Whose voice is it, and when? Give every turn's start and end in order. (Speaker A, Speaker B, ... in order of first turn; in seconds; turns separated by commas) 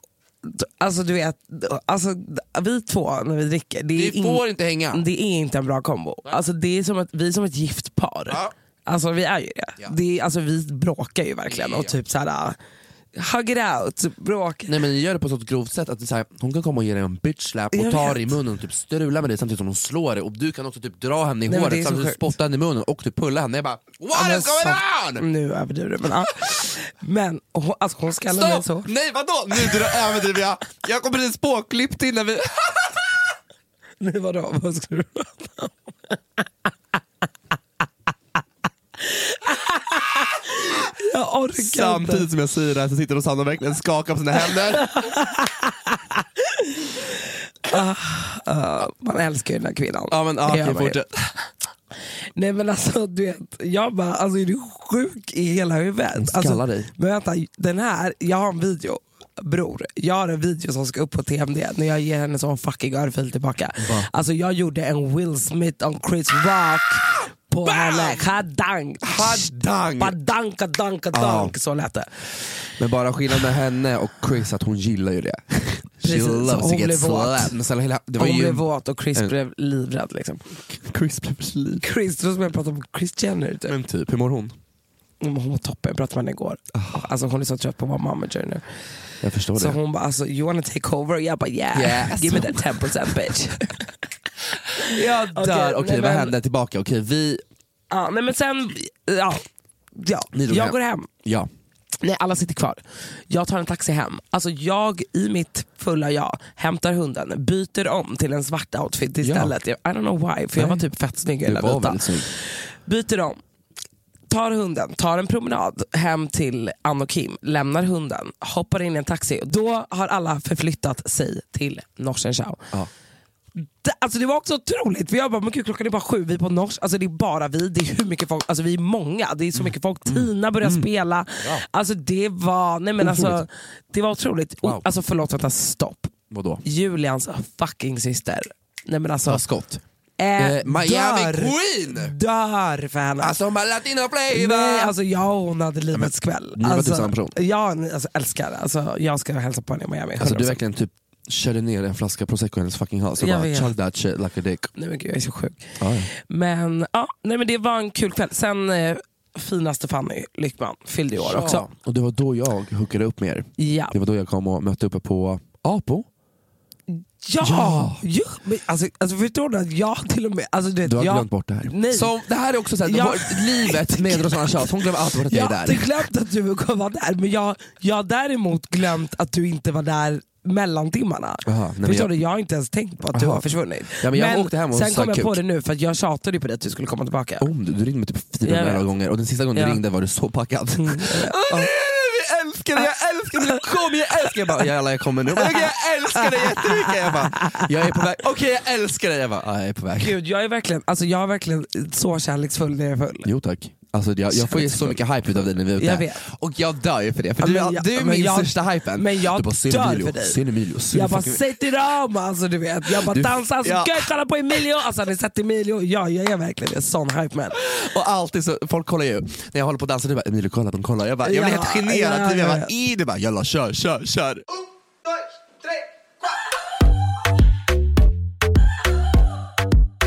Speaker A: 0.4-12.6, Speaker B: 3.9-5.0, Speaker B: 11.5-11.9, Speaker A: 13.1-14.8, Speaker B: 14.7-25.3, Speaker A: 17.7-18.4, Speaker A: 21.5-22.2, Speaker A: 24.1-28.9, Speaker B: 28.3-32.9, Speaker A: 29.5-30.0, Speaker A: 34.0-36.2, Speaker A: 39.0-42.3, Speaker B: 41.6-44.9, Speaker A: 44.4-51.0, Speaker B: 50.1-51.1, Speaker A: 52.4-72.1, Speaker B: 56.2-56.9, Speaker B: 63.8-64.1, Speaker B: 67.6-68.2, Speaker B: 69.0-70.2, Speaker B: 71.1-71.5, Speaker B: 72.8-79.3, Speaker A: 76.0-77.6, Speaker A: 78.2-80.4, Speaker B: 80.7-81.8, Speaker A: 81.8-83.8, Speaker B: 83.7-84.5, Speaker A: 85.2-88.6, Speaker B: 86.7-87.1, Speaker B: 89.2-89.8, Speaker A: 89.5-93.9, Speaker B: 91.8-92.9, Speaker B: 94.8-97.4, Speaker A: 94.8-96.3, Speaker A: 97.9-99.4, Speaker A: 100.0-101.1, Speaker B: 100.3-101.5, Speaker A: 102.0-113.4, Speaker B: 109.2-109.5, Speaker B: 110.6-110.8, Speaker B: 111.4-112.3, Speaker A: 114.3-122.7, Speaker A: 123.6-136.1, Speaker B: 129.6-130.9, Speaker B: 133.0-133.4, Speaker B: 136.3-136.6, Speaker A: 136.6-139.4, Speaker B: 139.3-139.8, Speaker A: 140.2-143.4, Speaker B: 140.4-142.1, Speaker B: 143.2-144.9, Speaker A: 144.3-150.6, Speaker B: 145.9-147.4, Speaker B: 150.2-154.7, Speaker A: 153.2-153.7, Speaker A: 154.8-161.7, Speaker B: 155.8-156.1, Speaker B: 161.2-166.1, Speaker A: 163.6-163.9, Speaker A: 166.9-172.2, Speaker B: 167.4-168.0, Speaker B: 170.8-175.9, Speaker A: 172.8-187.5, Speaker B: 181.5-182.1, Speaker B: 183.1-185.4, Speaker B: 187.4-200.1, Speaker A: 188.4-188.9, Speaker A: 189.5-189.8, Speaker A: 190.8-191.7, Speaker A: 192.8-193.6, Speaker A: 194.2-194.7, Speaker A: 195.3-198.0, Speaker A: 200.0-203.3, Speaker B: 203.2-211.4, Speaker A: 204.3-206.2, Speaker A: 207.4-210.4, Speaker A: 210.9-217.6, Speaker B: 212.9-214.1, Speaker B: 217.6-224.4, Speaker A: 221.2-222.7